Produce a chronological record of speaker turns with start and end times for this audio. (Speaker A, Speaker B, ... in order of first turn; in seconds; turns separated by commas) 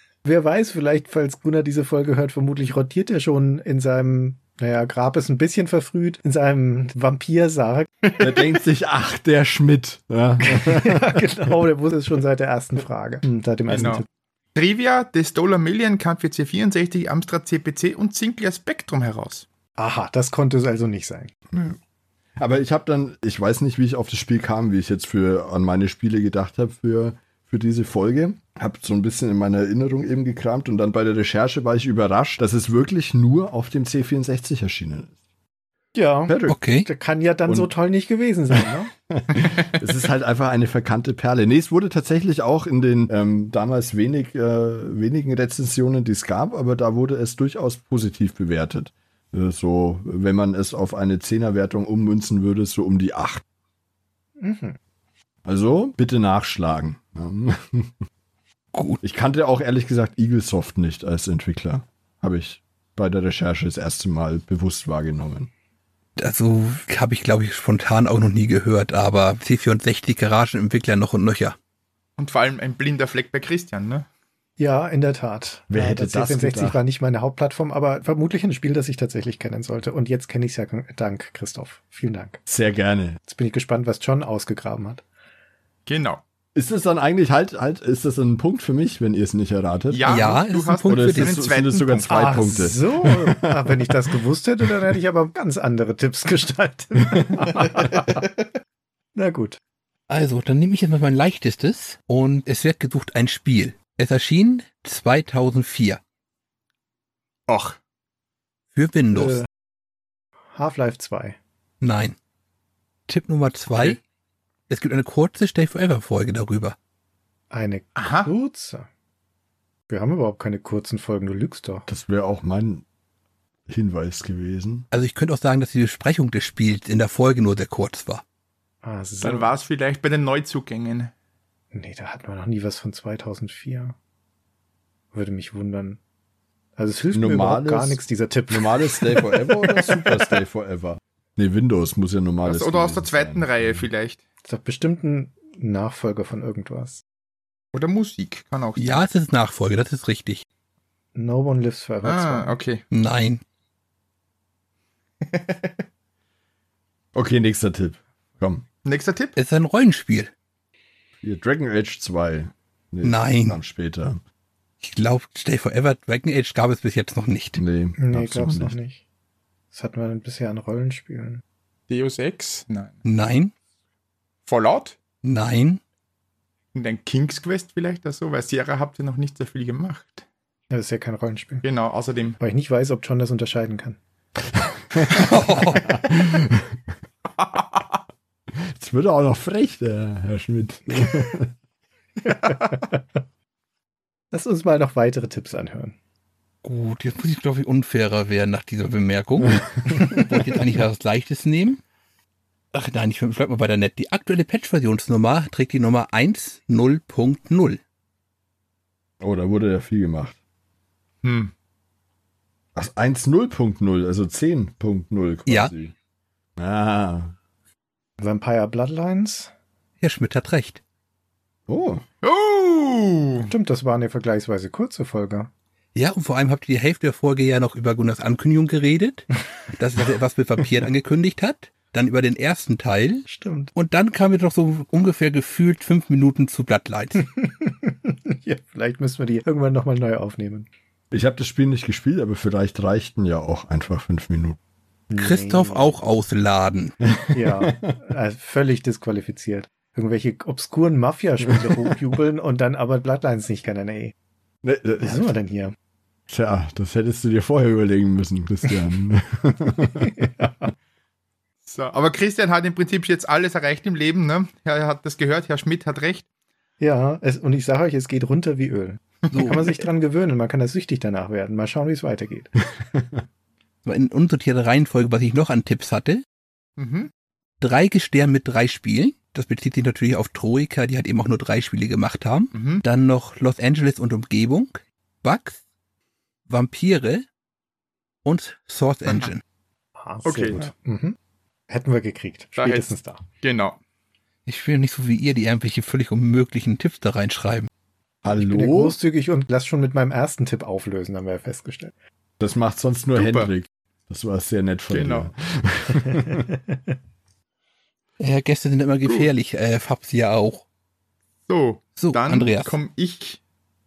Speaker A: 0.2-7.9, Speaker B: 8.2-11.4, Speaker A: 10.4-14.1, Speaker C: 13.7-14.0, Speaker C: 14.6-19.4, Speaker A: 19.8-21.3, Speaker B: 21.5-21.8, Speaker B: 22.4-35.1, Speaker A: 36.0-38.9, Speaker B: 36.3-36.6, Speaker D: 36.5-36.9, Speaker B: 37.5-37.7, Speaker B: 39.1-53.4, Speaker A: 54.4-54.8, Speaker B: 55.5-58.0, Speaker D: 58.7-59.0, Speaker B: 59.0-65.5, Speaker D: 66.2-71.6, Speaker C: 72.2-74.1, Speaker A: 74.6-82.4, Speaker B: 75.7-76.8, Speaker B: 82.5-83.2, Speaker A: 83.3-85.0, Speaker C: 85.9-86.2, Speaker B: 86.5-90.3, Speaker C: 89.9-92.1, Speaker D: 90.1-91.4, Speaker B: 90.8-94.1, Speaker A: 92.1-98.2, Speaker B: 97.0-97.8, Speaker A: 99.2-99.6, Speaker D: 100.1-106.0, Speaker C: 107.5-107.8, Speaker D: 108.7-109.4, Speaker A: 109.2-109.5, Speaker A: 110.5-111.4, Speaker D: 111.8-112.2, Speaker D: 113.1-114.0, Speaker D: 114.7-116.8, Speaker A: 117.5-118.9, Speaker C: 118.0-118.3, Speaker A: 119.9-121.9, Speaker B: 121.9-122.8, Speaker B: 123.7-124.9, Speaker D: 124.9-128.2, Speaker A: 128.8-129.5, Speaker C: 129.2-131.1, Speaker A: 131.7-134.0, Speaker A: 135.1-136.0, Speaker A: 136.8-139.9, Speaker B: 137.1-143.9, Speaker C: 142.4-144.2, Speaker A: 144.4-147.0, Speaker C: 147.7-149.0, Speaker D: 148.8-150.4, Speaker A: 151.2-152.5, Speaker C: 152.0-152.8, Speaker D: 152.9-153.4, Speaker C: 155.2-155.7, Speaker B: 157.2-158.7, Speaker C: 158.8-159.3, Speaker D: 159.4-160.3, Speaker B: 161.2-164.2, Speaker D: 163.0-163.6, Speaker D: 164.8-167.6, Speaker B: 167.6-168.8, Speaker A: 168.0-169.0, Speaker A: 169.7-171.4, Speaker C: 171.9-173.0, Speaker D: 173.1-173.5, Speaker C: 174.5-175.0, Speaker D: 175.2-175.8, Speaker C: 176.8-180.2, Speaker A: 180.7-181.6, Speaker C: 181.6-182.4, Speaker A: 182.4-184.0, Speaker B: 184.6-186.8, Speaker D: 185.0-186.1, Speaker B: 188.5-191.5, Speaker A: 192.2-193.0, Speaker A: 194.3-196.0, Speaker D: 196.6-201.8, Speaker D: 202.7-207.8, Speaker B: 209.2-210.4, Speaker C: 211.2-211.5, Speaker B: 212.8-215.9, Speaker D: 215.5-215.7, Speaker B: 216.6-217.3, Speaker A: 218.2-219.5, Speaker D: 220.0-220.8, Speaker B: 221.7-222.0, Speaker C: 222.2-223.5, Speaker A: 223.5-225.5, Speaker D: 225.9-237.2, Speaker A: 233.3-233.7, Speaker A: 237.2-240.7, Speaker B: 241.1-244.6, Speaker A: 245.1-245.9, Speaker D: 245.2-246.9, Speaker B: 247.0-248.0, Speaker A: 247.3-254.1, Speaker B: 251.5-252.0, Speaker B: 254.6-255.3, Speaker A: 255.0-255.8, Speaker B: 256.3-260.3, Speaker A: 259.8-260.7, Speaker C: 261.7-266.2, Speaker A: 266.8-272.6, Speaker D: 269.3-269.7, Speaker D: 273.9-276.2, Speaker C: 276.8-277.1, Speaker D: 277.6-285.6, Speaker C: 282.5-282.8, Speaker D: 286.5-287.3, Speaker D: 288.2-289.4, Speaker A: 290.0-291.2, Speaker C: 290.2-290.6, Speaker A: 291.7-293.2, Speaker C: 292.6-292.9, Speaker C: 293.4-293.8, Speaker D: 294.5-297.7, Speaker B: 298.2-299.0, Speaker A: 298.3-301.9, Speaker B: 302.4-306.5, Speaker C: 303.1-303.5, Speaker C: 304.9-305.3, Speaker D: 308.2-310.6, Speaker C: 311.5-313.4, Speaker D: 312.0-312.8